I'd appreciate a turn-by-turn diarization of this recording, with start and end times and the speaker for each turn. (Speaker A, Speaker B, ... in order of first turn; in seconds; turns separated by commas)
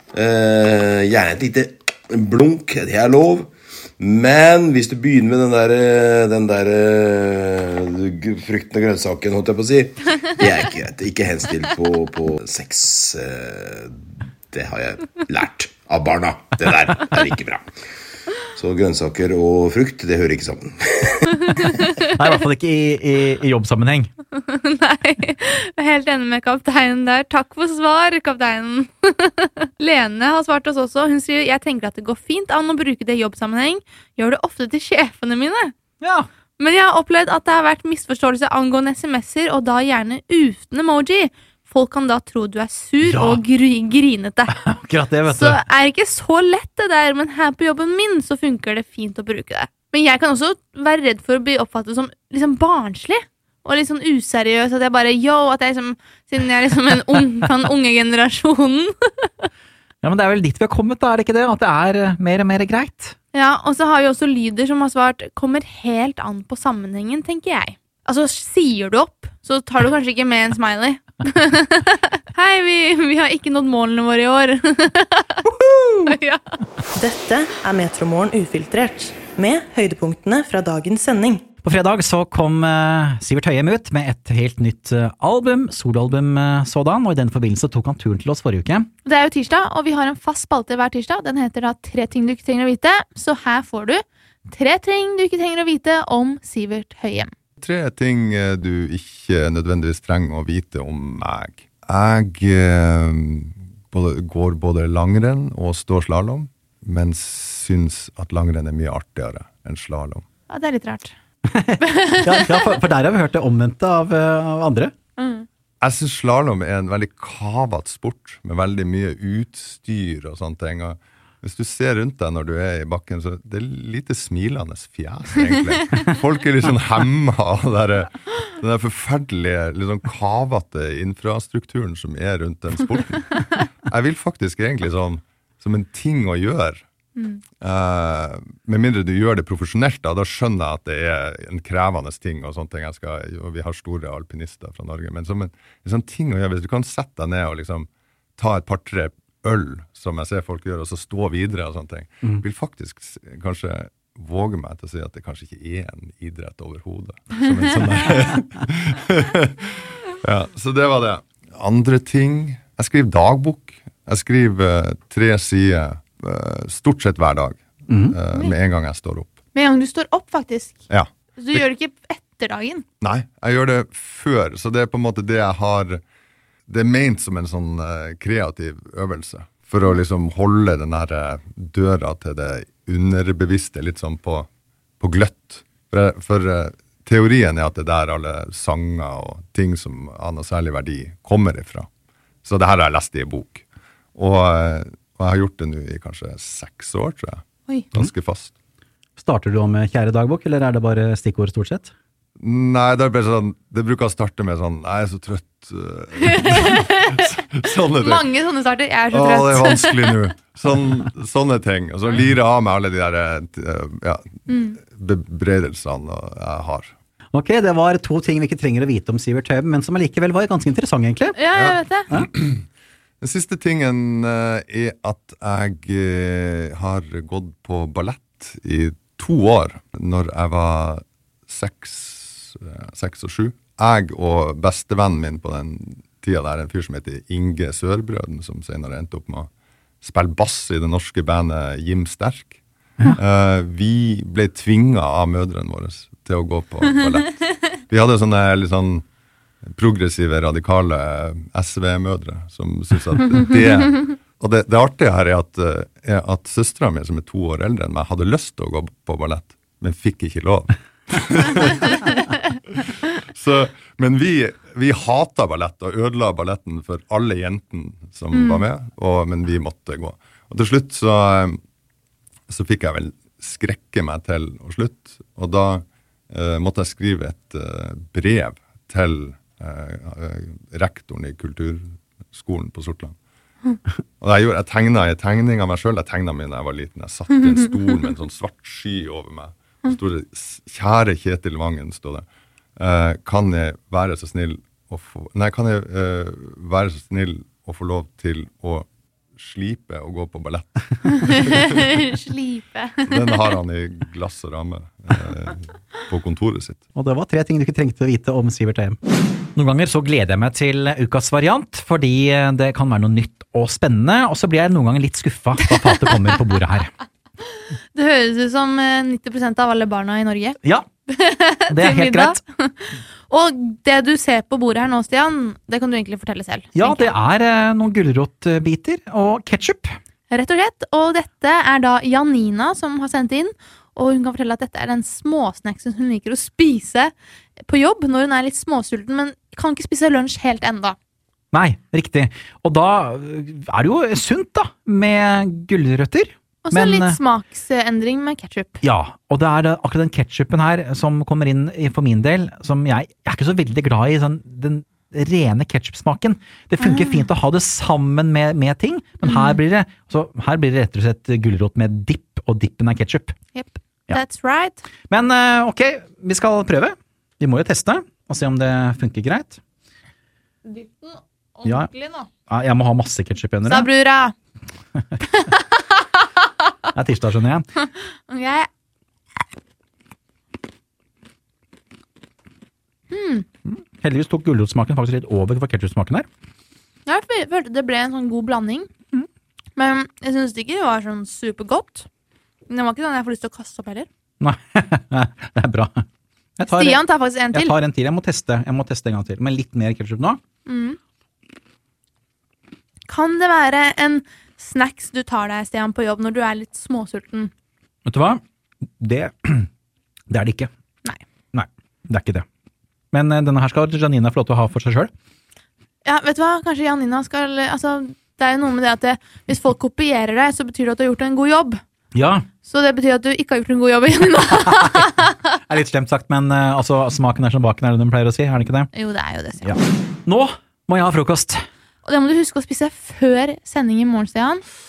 Speaker A: 0.1-13.9, Speaker A: 14.5-17.6, Speaker A: 18.5-21.5, Speaker B: 22.1-24.1, Speaker C: 24.3-35.7, Speaker B: 36.0-36.3, Speaker C: 36.6-44.5, Speaker B: 43.0-43.4, Speaker B: 44.5-45.6, Speaker C: 45.3-59.5, Speaker B: 60.0-63.1, Speaker C: 63.3-76.6, Speaker D: 77.0-81.4, Speaker B: 81.6-88.9, Speaker C: 89.0-97.3, Speaker E: 97.6-110.2, Speaker C: 110.5-111.1, Speaker B: 111.5-114.9, Speaker C: 111.9-112.4, Speaker C: 115.2-115.5, Speaker E: 115.8-136.8, Speaker E: 137.6-159.6, Speaker E: 160.2-169.3, Speaker B: 167.9-168.1, Speaker C: 169.5-170.8, Speaker E: 170.9-171.6, Speaker C: 171.4-172.8, Speaker E: 173.0-176.0, Speaker E: 176.7-184.5, Speaker E: 185.0-191.9, Speaker E: 192.4-193.6, Speaker E: 194.1-198.5, Speaker B: 199.2-201.9, Speaker E: 202.4-208.3, Speaker C: 206.2-207.2, Speaker C: 207.9-210.2, Speaker E: 209.1-216.9, Speaker C: 214.5-214.8, Speaker B: 217.3-221.4, Speaker C: 221.3-222.1, Speaker E: 221.5-222.6, Speaker E: 223.2-239.5, Speaker E: 240.0-242.6, Speaker E: 243.2-249.0, Speaker E: 249.7-262.1, Speaker E: 262.8-271.6, Speaker C: 268.3-268.6, Speaker E: 272.5-283.1, Speaker E: 284.2-292.2, Speaker E: 292.8-301.6, Speaker C: 301.3-303.2, Speaker E: 303.0-306.8, Speaker B: 306.9-309.0, Speaker B: 309.6-316.9, Speaker C: 317.9-320.6, Speaker C: 321.1-327.1, Speaker B: 321.7-322.4, Speaker B: 326.7-329.9, Speaker C: 330.3-337.1, Speaker C: 337.6-340.9, Speaker B: 341.5-347.2, Speaker C: 346.6-348.8, Speaker B: 348.8-363.4, Speaker C: 356.8-357.2, Speaker C: 359.2-359.6, Speaker C: 363.5-364.8, Speaker B: 365.1-369.6, Speaker C: 370.6-372.3, Speaker B: 372.5-373.9, Speaker C: 373.6-374.3, Speaker C: 375.3-375.6, Speaker B: 376.9-377.6, Speaker C: 378.0-378.7, Speaker C: 383.1-383.4, Speaker B: 383.6-386.3, Speaker C: 387.1-388.9, Speaker C: 389.7-392.1, Speaker C: 392.7-394.1, Speaker B: 394.4-396.0, Speaker B: 396.6-400.4, Speaker C: 396.7-397.7, Speaker C: 400.6-401.0, Speaker C: 403.1-407.5, Speaker B: 408.0-408.4, Speaker B: 409.0-409.7, Speaker B: 410.3-410.7, Speaker B: 411.5-412.4, Speaker B: 413.1-415.1, Speaker C: 416.0-421.8, Speaker B: 422.1-422.4, Speaker C: 422.6-425.4, Speaker B: 425.6-428.9, Speaker C: 428.9-429.8, Speaker B: 429.6-431.6, Speaker C: 432.0-434.6